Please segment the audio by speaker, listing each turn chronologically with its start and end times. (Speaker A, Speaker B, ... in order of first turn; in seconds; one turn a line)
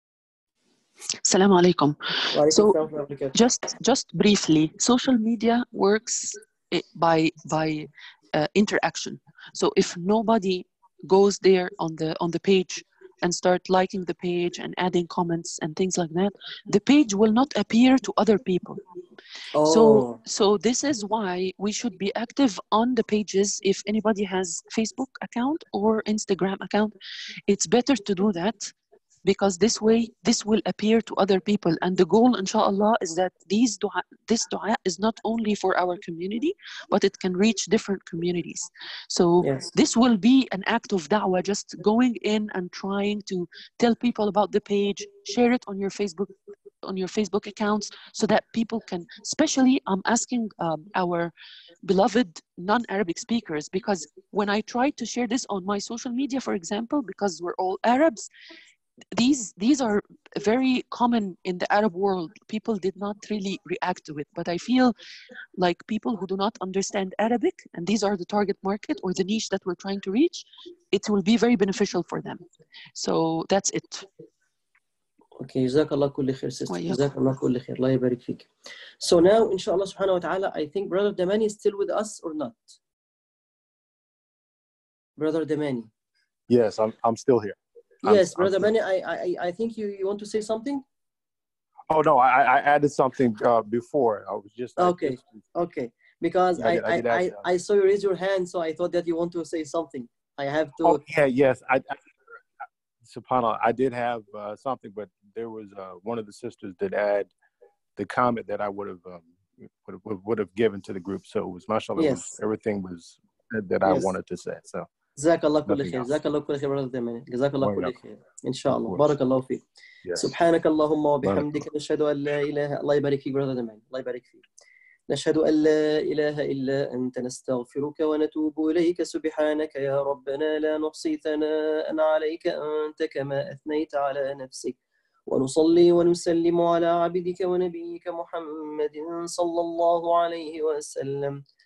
Speaker A: 1.2-2.8
Speaker B: 2.3-3.4
Speaker A: 3.3-18.8
Speaker B: 19.5-20.2
Speaker A: 19.6-26.9
Speaker A: 27.5-28.7
Speaker A: 29.2-51.3
Speaker B: 39.4-39.7
Speaker A: 51.8-58.3
Speaker A: 59.1-64.9
Speaker A: 65.6-72.4
Speaker A: 73.0-74.1
Speaker B: 75.4-78.5
Speaker A: 76.7-77.1
Speaker B: 79.0-82.8
Speaker B: 85.2-85.9
Speaker C: 86.5-88.7
Speaker B: 88.0-90.8
Speaker C: 91.9-95.4
Speaker B: 94.8-101.0
Speaker C: 96.6-97.4
Speaker C: 100.8-102.0
Speaker C: 103.0-107.3
Speaker C: 108.0-114.9
Speaker B: 112.0-112.3
Speaker B: 113.8-114.1
Speaker B: 115.2-119.6
Speaker C: 115.7-116.1
Speaker C: 117.6-118.0
Speaker C: 118.7-119.1
Speaker C: 120.0-120.3
Speaker B: 120.1-124.4
Speaker C: 121.2-121.7
Speaker B: 125.1-134.8
Speaker B: 135.3-141.4